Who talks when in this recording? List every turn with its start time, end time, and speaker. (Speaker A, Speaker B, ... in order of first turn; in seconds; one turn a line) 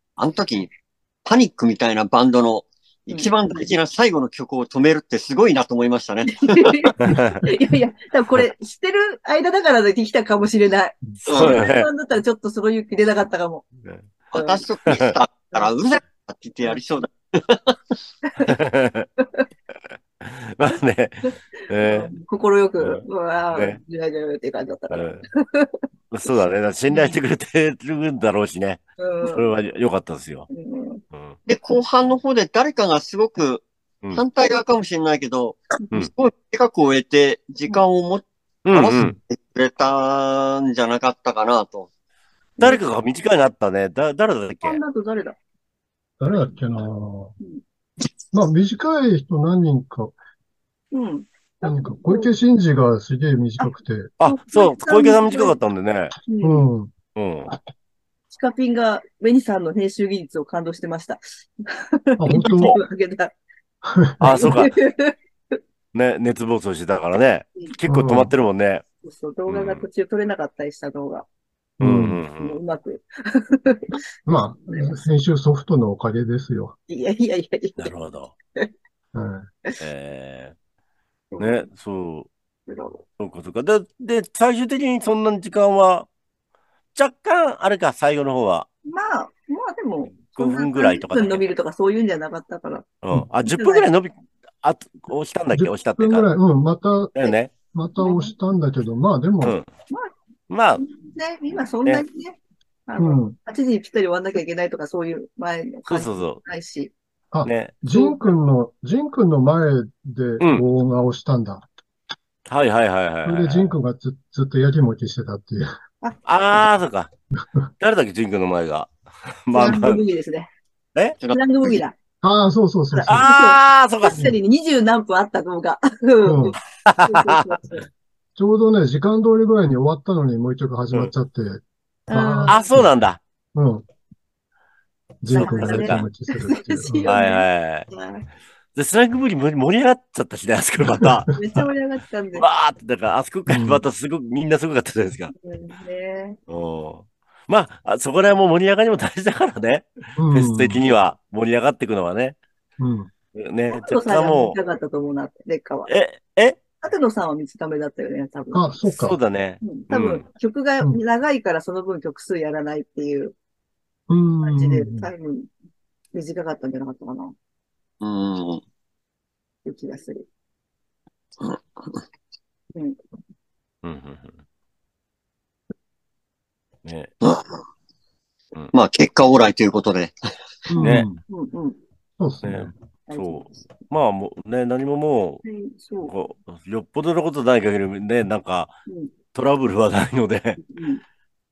Speaker A: 0.2-0.7
Speaker A: 1.2-6.7
Speaker B: 3.1-3.7
Speaker B: 6.3-13.6
Speaker C: 7.1-7.4
Speaker C: 11.2-11.9
Speaker A: 11.3-11.6
Speaker A: 14.3-17.8
Speaker B: 14.3-14.6
Speaker C: 18.4-19.1
Speaker C: 20.2-22.1
Speaker B: 21.2-25.8
Speaker C: 22.8-23.8
Speaker C: 24.9-25.2
Speaker C: 26.1-30.5
Speaker B: 26.9-27.2
Speaker B: 29.0-29.5
Speaker B: 30.5-31.0
Speaker A: 31.4-41.9
Speaker C: 38.6-39.1
Speaker C: 42.6-44.8
Speaker B: 44.6-45.4
Speaker D: 46.2-47.3
Speaker D: 48.3-50.1
Speaker B: 50.9-52.3
Speaker D: 51.6-54.1
Speaker B: 53.6-55.6
Speaker C: 54.2-56.1
Speaker B: 56.2-56.7
Speaker D: 56.4-56.9
Speaker C: 57.1-57.5
Speaker B: 58.3-63.3
Speaker D: 62.2-62.8
Speaker C: 62.4-62.8
Speaker D: 63.8-64.7
Speaker C: 64.2-64.7
Speaker B: 64.2-65.6
Speaker C: 65.9-68.8
Speaker D: 67.8-68.3
Speaker B: 69.0-71.2
Speaker C: 69.5-69.9
Speaker C: 71.8-72.6
Speaker D: 71.8-72.2
Speaker B: 72.4-75.0
Speaker D: 74.2-76.7
Speaker B: 76.9-77.9
Speaker C: 77.8-78.3
Speaker D: 79.1-79.5
Speaker C: 79.8-80.5
Speaker B: 81.3-81.6
Speaker C: 81.4-82.3
Speaker B: 82.7-83.0
Speaker C: 83.2-86.1
Speaker C: 86.9-88.7
Speaker B: 88.8-92.9
Speaker C: 90.3-91.4
Speaker C: 93.0-96.3
Speaker B: 93.4-93.9
Speaker D: 95.5-99.6
Speaker C: 97.1-97.5
Speaker B: 98.0-98.3
Speaker C: 99.4-99.7
Speaker C: 100.5-100.8
Speaker B: 100.8-106.9
Speaker D: 103.0-103.4
Speaker C: 105.9-106.4
Speaker D: 107.3-111.6
Speaker C: 107.4-107.8
Speaker B: 107.9-108.3
Speaker C: 112.5-113.7
Speaker D: 113.2-115.7
Speaker C: 116.2-117.1
Speaker C: 117.8-118.9
Speaker C: 119.4-120.0
Speaker B: 119.5-120.5
Speaker A: 121.2-121.8
Speaker B: 121.3-121.9
Speaker D: 122.2-123.3
Speaker B: 122.9-127.9
Speaker C: 123.0-124.2
Speaker D: 124.1-124.3
Speaker D: 126.2-126.6
Speaker C: 126.8-127.4
Speaker D: 128.3-132.9
Speaker B: 132.1-132.6
Speaker C: 132.5-133.2
Speaker D: 133.5-133.8
Speaker D: 135.2-137.1
Speaker B: 135.3-138.2
Speaker C: 135.3-136.0
Speaker C: 137.0-137.9
Speaker C: 138.7-141.3
Speaker B: 141.3-142.4
Speaker C: 142.3-145.3
Speaker D: 143.4-143.8
Speaker B: 145.4-146.4
Speaker C: 146.5-152.4
Speaker D: 150.2-150.8
Speaker D: 152.8-153.1
Speaker C: 153.3-154.6
Speaker B: 153.7-155.9
Speaker C: 155.9-156.6
Speaker B: 156.8-158.7
Speaker D: 158.5-159.2
Speaker C: 158.8-160.2
Speaker B: 159.6-163.3
Speaker D: 164.1-165.1
Speaker B: 164.4-165.5
Speaker B: 166.1-167.3
Speaker A: 168.0-168.6
Speaker B: 169.6-170.2
Speaker A: 171.4-172.0
Speaker C: 173.8-174.3
Speaker C: 176.8-177.1
Speaker A: 177.2-177.6
Speaker A: 178.7-180.2
Speaker D: 180.7-181.2
Speaker C: 180.8-181.1
Speaker B: 181.3-181.8
Speaker D: 182.2-182.7
Speaker C: 182.4-185.4
Speaker B: 183.1-183.5
Speaker B: 185.4-186.1
Speaker C: 186.0-188.7
Speaker B: 188.9-189.1
Speaker C: 189.3-190.6
Speaker B: 190.6-191.0